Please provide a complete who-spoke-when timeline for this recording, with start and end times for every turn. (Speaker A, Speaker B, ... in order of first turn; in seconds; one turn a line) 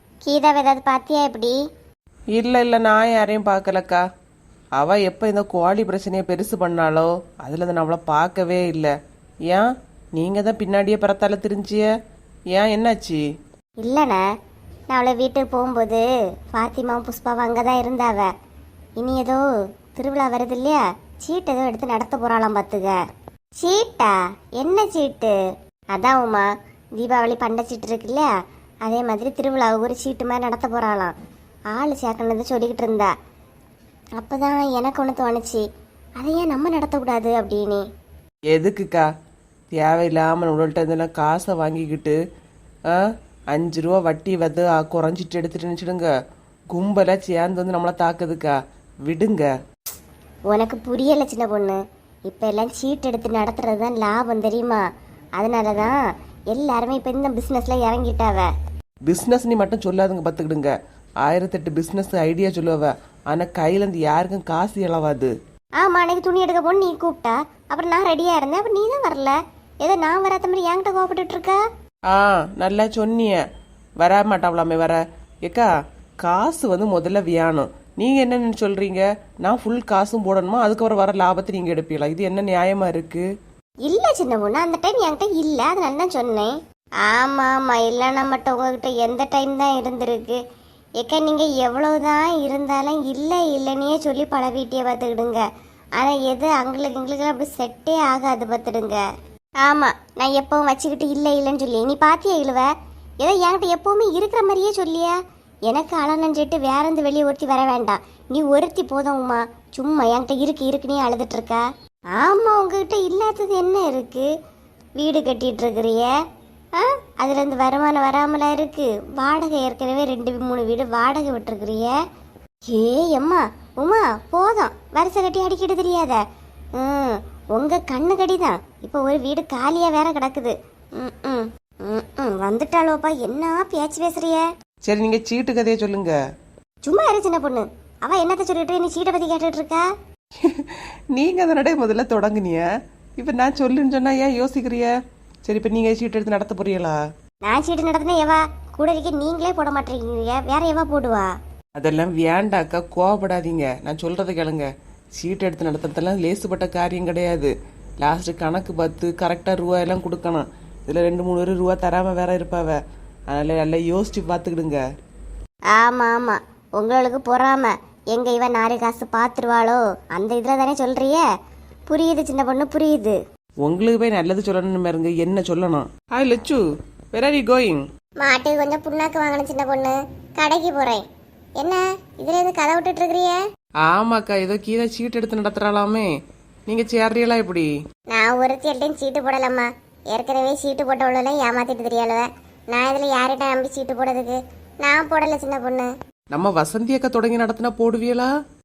Speaker A: 0.3-1.6
Speaker B: 2.3-4.0
Speaker B: 4.8-8.9
Speaker B: 9.5-11.9
Speaker B: 12.5-13.2
Speaker A: 13.8-14.2
Speaker A: 14.9-18.3
Speaker A: 19.0-19.4
Speaker A: 20.0-23.0
Speaker A: 23.6-25.3
Speaker A: 25.9-28.3
Speaker A: 28.9-31.1
Speaker A: 31.7-33.1
Speaker A: 34.2-35.6
Speaker A: 36.2-37.9
Speaker B: 38.5-39.1
Speaker B: 39.7-42.2
Speaker B: 42.9-46.1
Speaker B: 46.7-48.5
Speaker B: 49.1-49.5
Speaker A: 50.5-54.8
Speaker A: 55.4-56.0
Speaker A: 56.5-58.5
Speaker B: 59.1-65.3
Speaker A: 65.8-71.6
Speaker B: 72.1-73.4
Speaker B: 74.0-75.7
Speaker B: 76.2-83.3
Speaker A: 83.9-90.4
Speaker A: 91.0-95.4
Speaker A: 96.0-99.0
Speaker A: 99.6-102.7
Speaker A: 103.2-105.2
Speaker A: 105.7-114.3
Speaker A: 115.0-116.1
Speaker A: 116.8-122.0
Speaker A: 122.7-126.2
Speaker A: 126.8-134.5
Speaker B: 134.8-136.2
Speaker A: 136.9-139.9
Speaker B: 140.4-142.7
Speaker B: 143.2-144.9
Speaker B: 145.5-147.0
Speaker A: 147.4-151.3
Speaker B: 151.8-162.8
Speaker B: 163.3-164.8
Speaker A: 165.7-171.2
Speaker A: 171.9-173.2
Speaker B: 173.6-176.6
Speaker B: 177.1-177.8
Speaker A: 178.2-181.1
Speaker A: 181.6-183.4
Speaker B: 183.8-186.1
Speaker B: 186.7-187.7
Speaker A: 188.1-195.9
Speaker B: 196.3-198.3